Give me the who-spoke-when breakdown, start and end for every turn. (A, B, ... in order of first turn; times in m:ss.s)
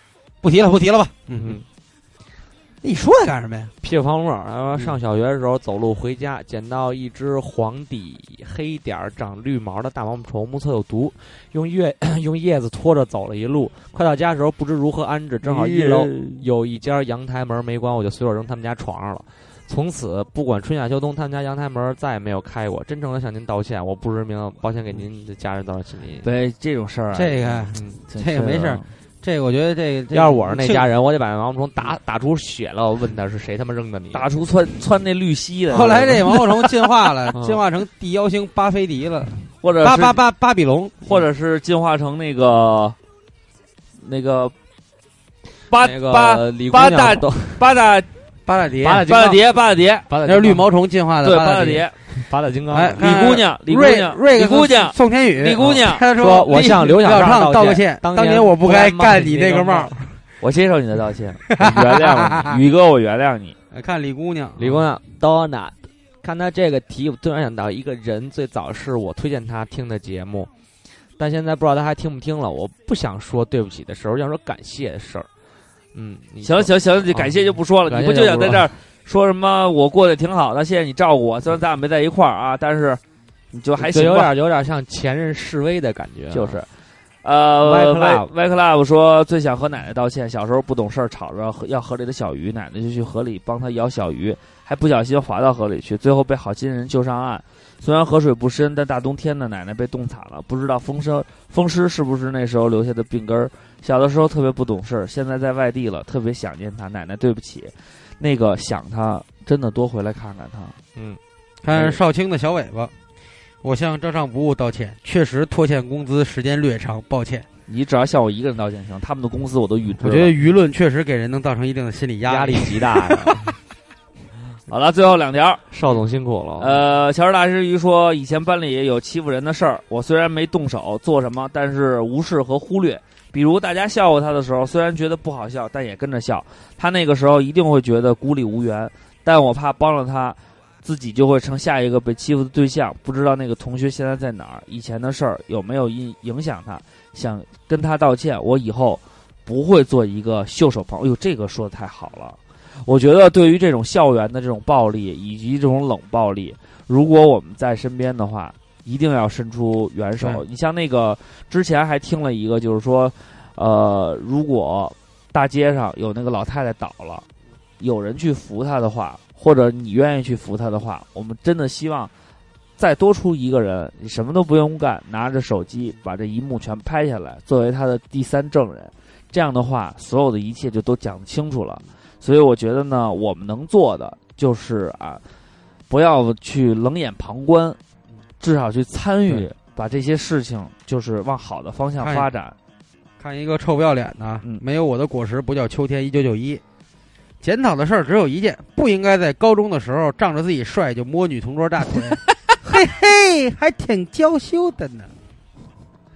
0:00.4-0:01.6 A
0:01.4-0:01.6 B
0:02.8-0:03.7 A
0:03.8-0:26.3 B
0:15.4-0:16.4 C
0:26.2-0:28.8 C
0:27.1-0:30.9 A
0:30.1-0:34.3 B
0:34.1-0:36.2 C
0:35.7-0:41.1 A
0:37.3-0:37.6 B
0:39.6-0:40.2 C
0:41.0-0:43.0 C
0:44.0-0:44.5 C
0:45.7-0:48.1 C
0:45.8-0:47.6 B
0:48.4-0:49.0 A
0:48.8-0:49.5 B
0:49.1-0:50.1 C
0:50.1-0:50.6 B
0:50.2-0:51.9 A
0:51.2-0:52.0 C
0:52.1-0:53.1 B
0:52.7-1:00.0 A
0:53.0-0:56.1 C
0:56.2-1:00.1 B
1:00.4-1:03.5 C
1:01.5-1:02.6 A
1:03.7-1:04.6 A
1:04.6-1:10.5 B
1:11.2-1:15.3 B
1:15.9-1:18.7 B
1:16.4-1:23.0 C
1:23.5-1:24.3 C
1:23.8-1:26.6 B
1:26.3-1:26.7 C
1:27.2-1:50.8 C
1:27.6-1:28.3 B
1:51.6-1:52.9 A
1:53.6-1:57.5 A
1:57.7-2:00.3 C
2:00.0-2:03.4 A
2:02.2-2:03.5 B
2:04.7-2:05.6 C
2:05.7-2:06.8 B
2:06.6-2:47.2 C
2:47.8-2:52.1 C
2:52.8-3:05.2 C
3:05.9-3:07.8 C
3:08.4-3:12.5 C
3:12.0-3:12.3 A
3:13.2-3:16.6 A
3:17.4-3:25.1 A